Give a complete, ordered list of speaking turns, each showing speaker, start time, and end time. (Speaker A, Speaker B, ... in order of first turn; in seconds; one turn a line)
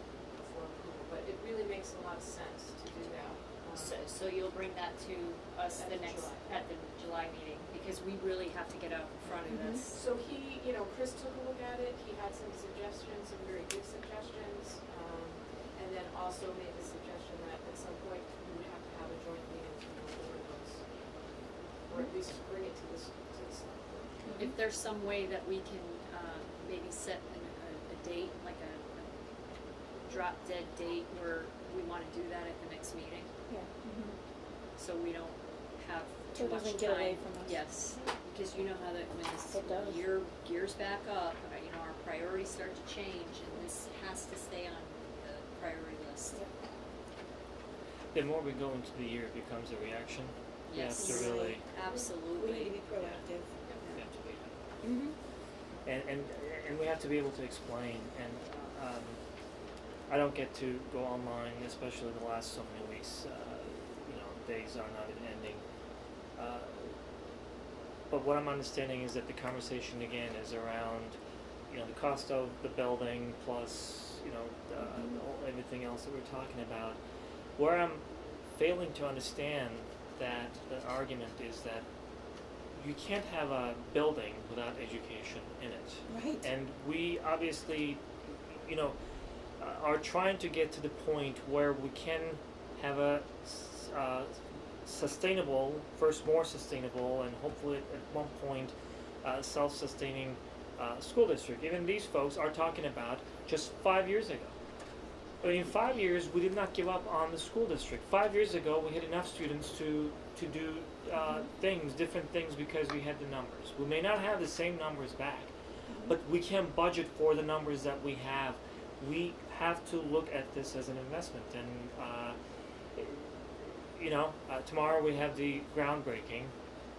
Speaker A: 0.4-4.0
Speaker B: 3.8-10.0
Speaker A: 5.8-6.6
Speaker C: 9.5-9.8
Speaker A: 9.9-20.8
Speaker A: 21.9-24.4
Speaker C: 24.3-24.5
Speaker B: 24.4-29.1
Speaker B: 30.1-33.3
Speaker C: 33.5-34.1
Speaker B: 34.8-46.4
Speaker C: 36.4-37.6
Speaker C: 39.5-40.0
Speaker D: 48.1-51.7
Speaker B: 50.7-52.8
Speaker C: 51.0-51.6
Speaker C: 52.3-53.5
Speaker D: 53.0-53.2
Speaker B: 53.7-53.9
Speaker D: 53.9-54.6
Speaker C: 54.8-55.1
Speaker D: 55.9-59.2
Speaker D: 60.1-65.6
Speaker D: 66.4-67.0
Speaker D: 68.1-71.2
Speaker D: 71.7-77.0
Speaker D: 77.6-81.9
Speaker D: 82.8-89.0
Speaker C: 86.1-86.5
Speaker D: 89.6-104.5
Speaker D: 105.4-115.5
Speaker D: 116.0-122.4
Speaker D: 123.0-126.5